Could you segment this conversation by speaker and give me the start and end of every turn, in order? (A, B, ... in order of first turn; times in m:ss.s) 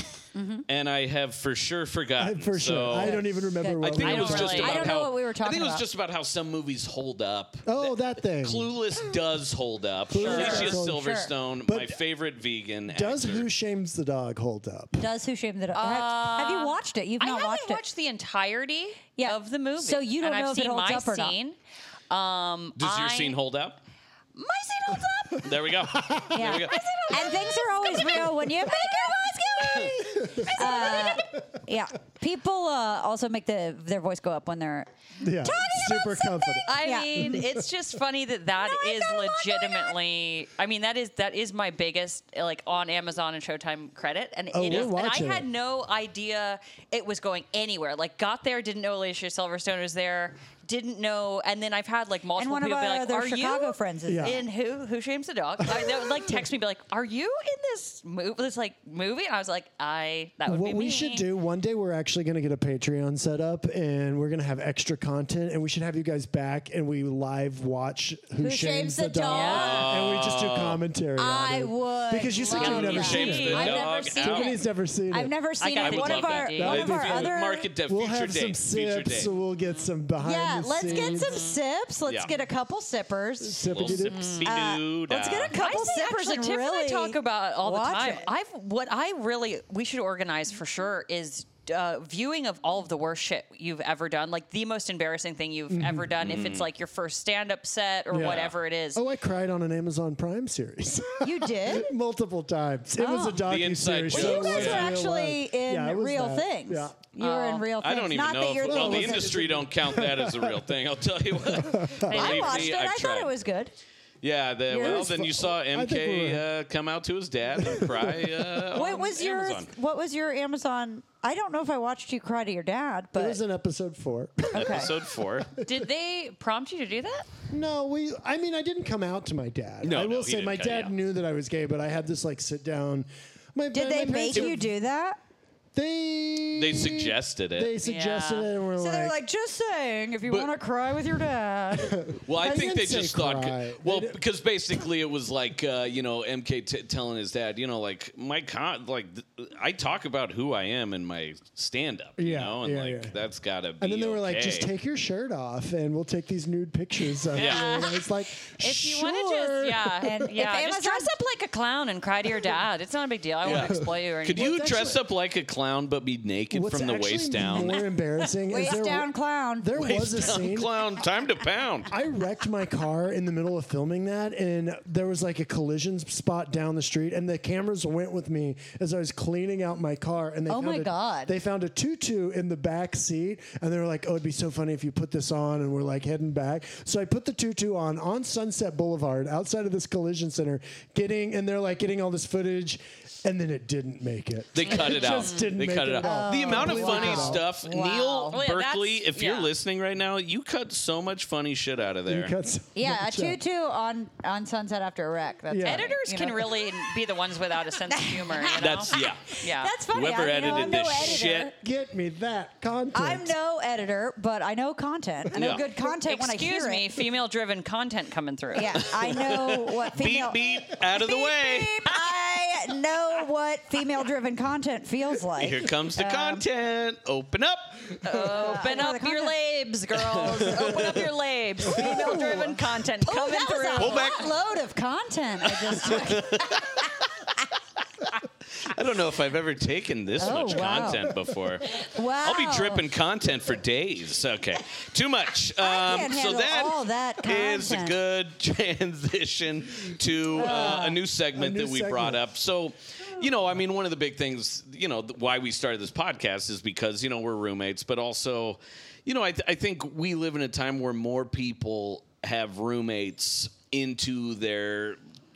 0:00.4-0:00.6 A
0:00.7-0:13.5 B
0:02.2-0:04.6 C
0:02.9-0:05.8 A
0:04.0-0:04.9 D
0:07.7-0:08.7 C
0:10.1-0:12.0 C
0:10.2-0:10.7 D
0:10.2-0:11.3 A
0:12.9-0:15.1 C
0:15.0-0:17.8 A
0:15.8-0:21.6 D
0:19.2-0:21.4 A
0:22.1-0:23.4 D
0:22.8-0:23.8 B
0:24.4-0:25.6 D
0:25.4-0:26.9 B
0:25.9-0:26.4 C
0:26.3-0:34.9 A
0:26.4-0:31.2 D
0:30.2-0:31.2 C
0:35.2-0:37.6 C
0:35.4-0:37.4 A
0:36.7-1:01.3 D
0:38.6-0:39.9 A
0:44.5-0:45.5 C
0:52.4-0:54.4 A
0:54.1-0:54.4 C
0:55.7-0:56.4 C
1:00.4-1:15.3 C
1:08.4-1:10.0 A
1:09.3-1:09.8 D
1:09.4-1:10.8 B
1:11.2-1:17.7 A
1:12.5-1:14.4 D
1:12.6-1:14.5 B
1:15.6-1:17.0 D
1:15.8-1:19.3 B
1:16.6-1:21.5 C
1:20.2-1:28.3 A
1:20.9-1:21.6 D
1:22.1-1:22.3 B
1:23.4-1:24.4 C
1:23.7-1:25.6 B
1:24.1-1:24.5 D
1:25.5-1:39.0 D
1:35.7-1:36.3 C
1:36.2-1:36.7 B
1:38.1-1:47.0 C
1:41.2-1:41.9 A
1:43.0-1:43.4 A
1:43.4-1:45.0 B
1:44.1-1:49.4 A
1:47.2-1:47.7 D
1:47.8-1:53.3 B
1:48.6-1:50.6 C
1:51.4-1:52.2 C
1:52.1-1:52.7 D
1:52.1-1:53.7 A
1:54.2-1:59.7 B
1:54.7-1:55.2 A
1:54.8-1:56.4 C
1:57.6-1:58.6 C
1:58.7-2:03.4 A
2:03.2-2:05.6 C
2:04.5-2:04.9 A
2:04.5-2:05.6 B
2:05.6-2:07.3 D
2:07.5-2:14.7 C
2:09.8-2:10.9 B
2:13.7-2:15.2 A
2:15.7-2:19.2 C
2:16.6-2:17.8 B
2:17.8-2:18.5 D
2:18.8-2:22.2 A
2:20.3-2:20.5 B
2:21.8-2:24.2 C
2:22.2-2:34.7 B
2:32.2-2:33.2 C
2:33.8-2:40.2 C
2:37.3-2:44.7 D
2:37.3-2:37.8 B
2:40.0-2:41.1 A
2:43.4-2:47.8 B
2:43.4-2:45.0 C
2:46.5-2:50.7 C
2:48.5-2:49.9 A
2:49.8-2:51.9 B
2:51.9-3:17.4 C
3:00.5-3:01.3 A
3:14.5-3:22.4 B
3:16.0-3:18.4 A
3:18.3-3:19.5 D
3:22.1-3:23.4 C
3:22.8-3:26.9 A
3:25.5-3:25.9 C
3:25.6-3:29.7 D
3:27.9-3:31.5 A
3:28.5-3:29.3 B
3:29.9-3:31.5 B
3:30.4-3:33.3 C
3:32.9-3:37.0 A
3:35.3-3:35.6 B
3:35.8-3:38.9 D
3:38.5-3:46.4 A
3:38.8-3:41.8 B
3:45.4-3:48.0 B
3:48.0-3:54.2 D
3:48.1-3:49.4 A
3:50.0-3:51.1 B
3:50.5-3:50.9 A
3:51.7-3:52.6 C
3:51.7-3:56.8 A
3:53.8-3:54.3 B
3:55.5-3:56.9 B
3:58.6-4:25.0 B
4:00.2-4:01.2 A
4:01.7-4:02.9 A
4:05.6-4:08.0 A
4:10.3-4:11.0 A
4:10.4-4:12.2 C